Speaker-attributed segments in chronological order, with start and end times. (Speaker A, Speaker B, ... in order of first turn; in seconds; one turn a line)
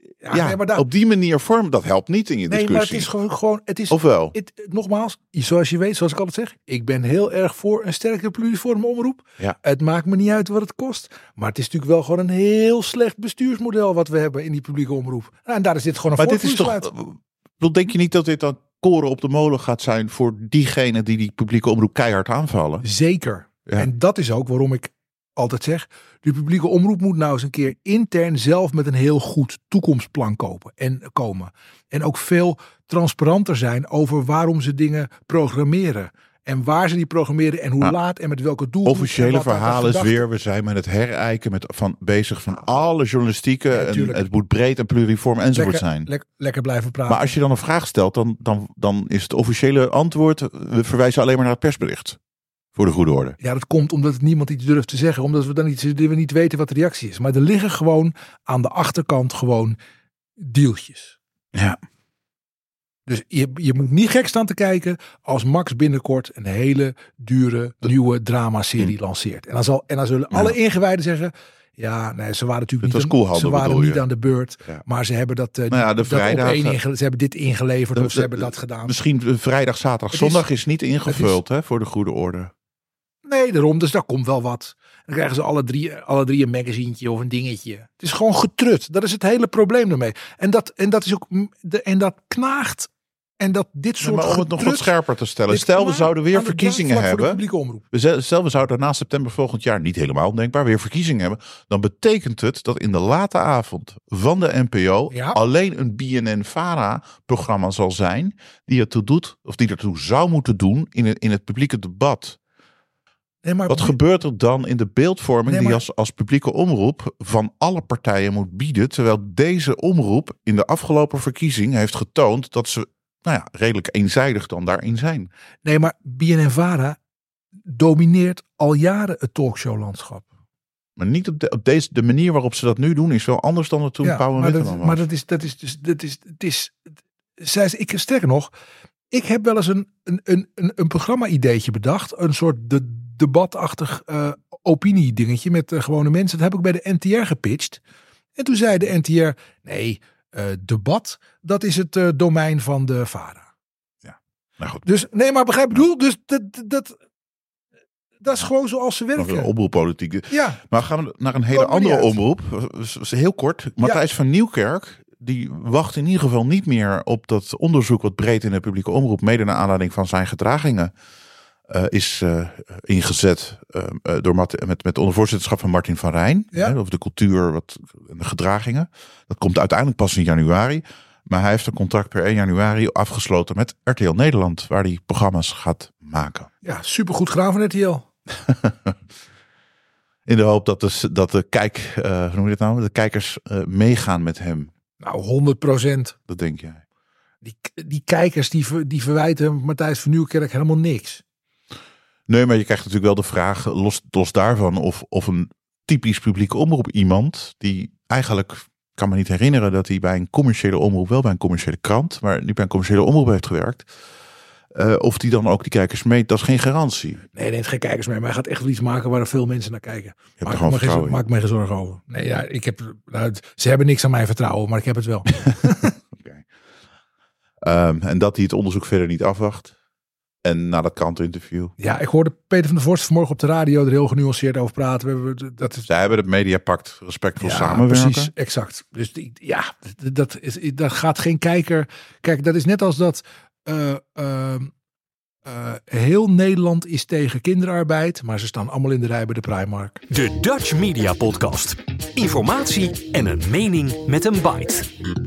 Speaker A: 0.2-0.8
Speaker B: 0.3-3.1
Speaker A: 2.5-16.9
Speaker B: 3.9-4.3
Speaker B: 16.2-22.9
Speaker A: 22.8-40.2
Speaker B: 38.9-46.1
Speaker A: 43.7-44.2
Speaker A: 45.5-47.3
Speaker B: 47.1-52.2
Speaker B: 52.8-53.4
Speaker A: 53.4-59.8
Speaker A: 60.4-61.2
Speaker B: 61.5-61.8
Speaker A: 63.1-79.0
Speaker B: 72.8-74.0
Speaker B: 75.7-76.8
Speaker B: 78.0-82.5
Speaker A: 80.1-80.5
Speaker A: 81.1-81.4
Speaker A: 83.3-94.9
Speaker B: 94.0-112.4
Speaker A: 95.5-97.8
Speaker A: 105.1-105.4
Speaker A: 113.4-114.0
Speaker B: 113.7-125.3
Speaker A: 115.5-115.8
Speaker A: 125.7-127.0
Speaker A: 127.7-130.3
Speaker B: 131.0-135.0
Speaker A: 134.0-136.8
Speaker A: 137.4-138.5
Speaker A: 139.1-147.8
Speaker A: 148.4-153.5
Speaker B: 154.0-154.9
Speaker A: 154.8-157.0
Speaker A: 158.2-159.5
Speaker B: 159.2-170.9
Speaker A: 160.3-160.6
Speaker A: 161.5-162.2
Speaker B: 171.7-186.5
Speaker A: 186.6-188.1
Speaker B: 188.4-189.0
Speaker B: 190.3-194.7
Speaker A: 195.0-196.2
Speaker B: 196.3-196.8
Speaker A: 197.4-201.2
Speaker B: 202.3-213.9
Speaker B: 214.7-217.2
Speaker A: 217.3-225.9
Speaker B: 220.4-221.2
Speaker B: 226.1-226.4
Speaker B: 227.6-229.7
Speaker B: 230.4-231.7
Speaker A: 231.8-235.9
Speaker B: 235.9-238.3
Speaker A: 237.4-244.7
Speaker A: 245.4-250.0
Speaker C: 250.1-254.9